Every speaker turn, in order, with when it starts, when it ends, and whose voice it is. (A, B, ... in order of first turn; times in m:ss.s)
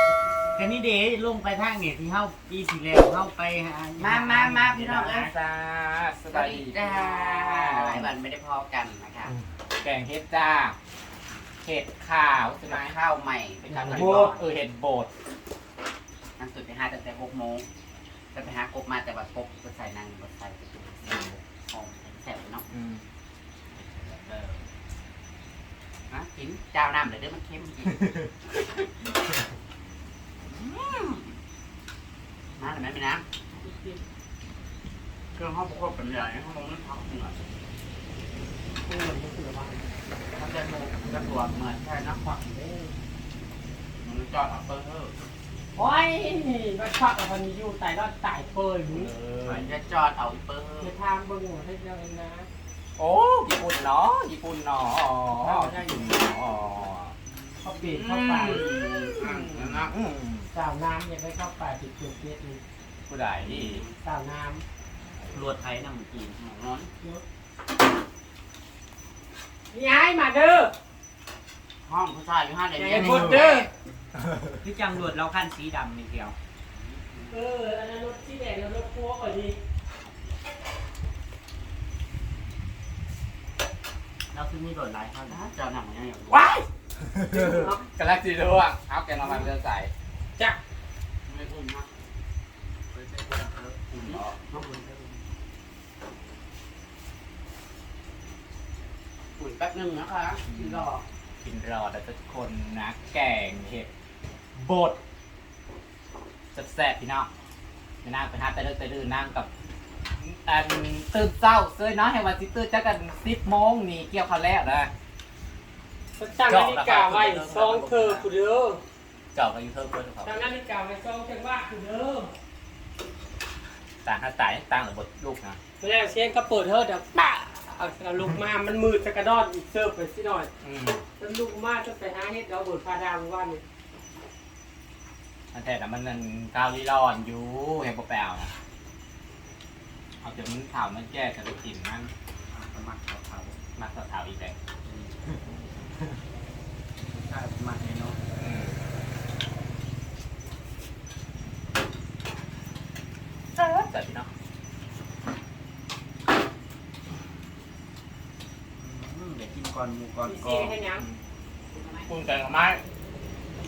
0:00.6-0:04.9 A
0:04.0-0:05.3 B
0:04.3-0:08.2 C
0:06.3-0:09.3 B
0:09.2-0:10.8 C
0:11.6-0:13.0 C
0:12.6-0:14.4 B
0:13.6-0:15.1 C
0:13.7-0:14.4 D
0:16.4-0:17.6 B
0:18.3-0:21.0 B
0:21.0-0:21.4 C
0:21.7-0:22.7 B
0:22.7-0:23.0 C
0:24.0-0:24.5 C
0:26.1-0:28.1 B
0:27.8-0:28.3 C
0:30.5-0:31.3 B
0:32.6-0:33.2 B
0:33.6-0:34.0 D
0:35.3-0:37.4 B
0:38.8-0:39.8 D
0:40.3-0:42.2 B
0:42.2-0:42.9 D
0:44.0-0:45.2 B
0:45.7-0:49.1 D
0:48.9-0:49.7 C
0:49.4-0:50.9 B
0:50.8-0:52.5 D
0:53.0-0:57.1 C
0:55.3-0:56.6 D
0:57.6-0:58.6 D
0:57.7-0:59.9 B
0:58.2-1:00.5 C
1:00.5-1:02.6 D
1:03.1-1:03.8 C
1:03.4-1:04.0 B
1:03.9-1:04.6 D
1:05.3-1:06.3 A
1:06.4-1:06.9 B
1:09.7-1:10.7 D
1:11.8-1:13.7 B
1:12.8-1:13.7 D
1:12.9-1:13.4 C
1:14.6-1:16.3 A
1:16.7-1:17.3 B
1:17.3-1:19.6 D
1:24.3-1:25.4 A
1:25.3-1:26.5 B
1:26.3-1:29.9 C
1:27.3-1:27.8 D
1:29.2-1:29.5 B
1:31.2-1:31.9 B
1:32.9-1:35.2 A
1:33.9-1:34.6 B
1:33.9-1:34.3 C
1:39.4-1:41.0 B
1:40.5-1:40.9 C
1:41.4-1:43.9 C
1:44.5-1:45.0 C
1:46.5-1:47.3 C
1:48.0-1:49.5 C
1:50.2-1:54.9 C
1:56.2-1:58.8 D
1:56.5-1:58.3 C
1:59.3-2:00.4 C
2:00.2-2:02.3 D
2:04.0-2:05.6 C
2:05.8-2:10.5 D
2:10.6-2:11.0 C
2:11.1-2:13.6 D
2:15.5-2:18.5 C
2:20.2-2:22.1 C
2:22.5-2:23.5 A
2:23.8-2:24.5 C
2:24.8-2:25.2 A
2:27.1-2:28.2 A
2:28.4-2:28.8 C
2:33.5-2:34.3 C
2:38.8-2:40.8 A
2:40.2-2:41.0 D
2:40.9-2:41.2 C
2:41.7-2:42.1 B
2:42.1-2:42.8 C